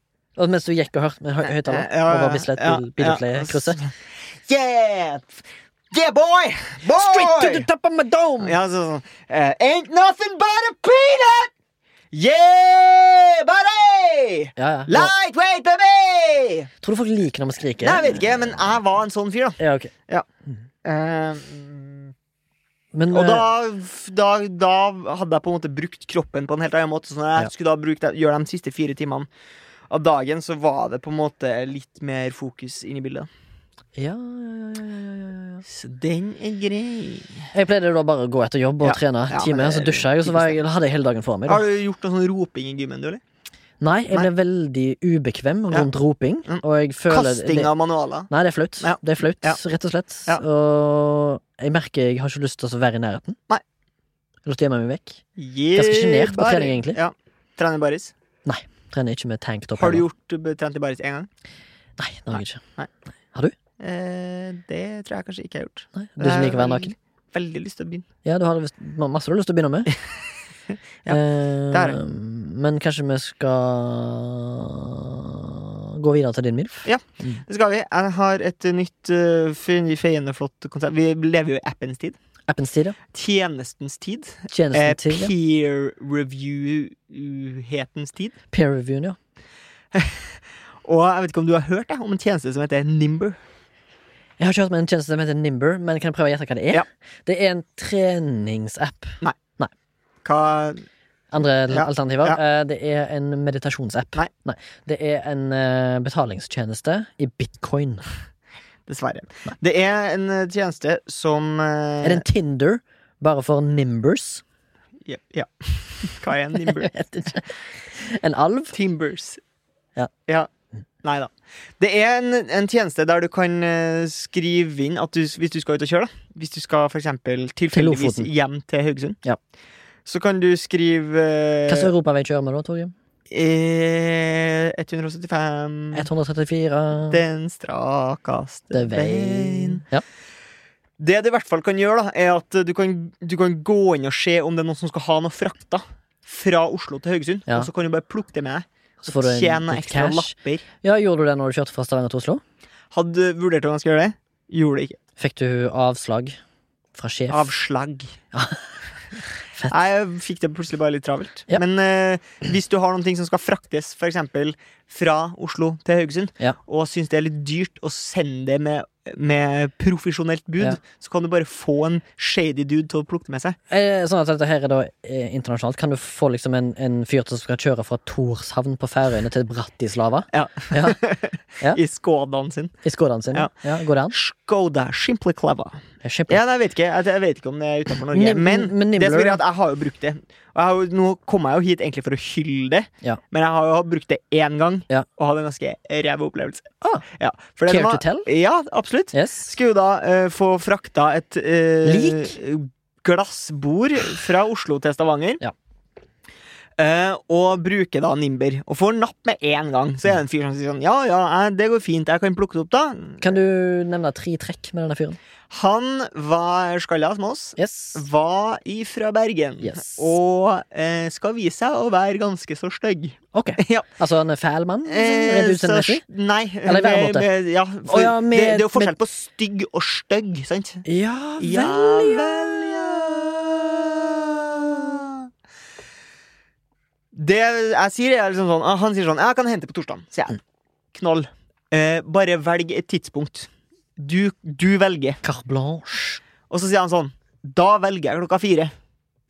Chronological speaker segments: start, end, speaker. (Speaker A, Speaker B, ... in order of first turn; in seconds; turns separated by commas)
Speaker A: 0.4-3.8, Speaker B: 1.4-7.7, Speaker A: 6.9-8.6, Speaker B: 8.4-11.5, Speaker B: 12.1-16.7, Speaker A: 14.6-15.1, Speaker A: 16.8-18.3, Speaker B: 17.8-20.3, Speaker A: 19.6-19.9, Speaker B: 20.8-22.1, Speaker A: 22.9-23.5, Speaker B: 23.1-29.3, Speaker B: 29.9-33.3, Speaker A: 34.0-35.6, Speaker B: 35.7-37.5, Speaker A: 37.5-41.6, Speaker B: 38.8-40.6, Speaker B: 41.5-43.2, Speaker A: 43.8-47.7, Speaker B: 46.5-48.3, Speaker A: 48.3-53.4, Speaker B: 48.8-49.6, Speaker A: 54.5-55.2, Speaker B: 55.4-58.1, Speaker A: 55.8-57.0, Speaker A: 58.5-60.0, Speaker B: 59.8-61.3, Speaker A: 62.0-62.6, Speaker B: 62.3-62.9, Speaker B: 63.8-68.1, Speaker A: 66.0-66.9, Speaker A: 68.2-69.9, Speaker A: 71.1-77.4, Speaker B: 71.7-72.0, Speaker B: 76.9-82.2, Speaker A: 82.5-83.0, Speaker B: 83.1-88.3, Speaker A: 84.5-85.3, Speaker A: 88.5-89.2, Speaker B: 89.9-93.4, Speaker A: 94.4-99.7, Speaker B: 100.2-100.8, Speaker A: 101.3-108.1, Speaker B: 101.7-102.4, Speaker B: 108.9-112.2, Speaker A: 112.0-114.4, Speaker B: 115.0-116.9, Speaker A: 116.6-118.8, Speaker B: 118.7-119.4, Speaker B: 121.0-129.2, Speaker A: 127.7-128.3, Speaker B: 130.1-131.9, Speaker A: 131.7-132.9, Speaker B: 133.3-136.1, Speaker A: 135.9-137.2, Speaker B: 137.1-139.8, Speaker A: 138.7-140.0, Speaker B: 141.0-150.7, Speaker A: 149.0-152.4, Speaker B: 152.9-155.0, Speaker A: 155.2-156.4, Speaker A: 156.9-157.5, Speaker B: 157.3-158.2, Speaker A: 158.3-158.8, Speaker A: 159.4-159.9, Speaker B: 159.7-173.6, Speaker A: 173.7-181.0, Speaker B: 180.3-182.8, Speaker A: 182.8-184.2, Speaker B: 184.1-205.4, Speaker A: 186.0-186.4, Speaker A: 188.1-189.4, Speaker A: 197.7-198.3, Speaker A: 199.1-199.5, Speaker A: 201.8-202.4, Speaker B: 206.8-213.3, Speaker A: 213.2-215.2, Speaker B: 215.5-223.8, Speaker A: 217.6-218.1, Speaker A: 219.6-220.2, Speaker A: 223.3-226.0, Speaker B: 224.9-230.8, Speaker A: 226.7-227.3, Speaker A: 227.8-228.9, Speaker A: 230.8-233.6, Speaker B: 231.4-235.3, Speaker B: 237.1-240.4, Speaker B: 240.9-245.2, Speaker A: 245.2-246.2, Speaker B: 246.5-248.7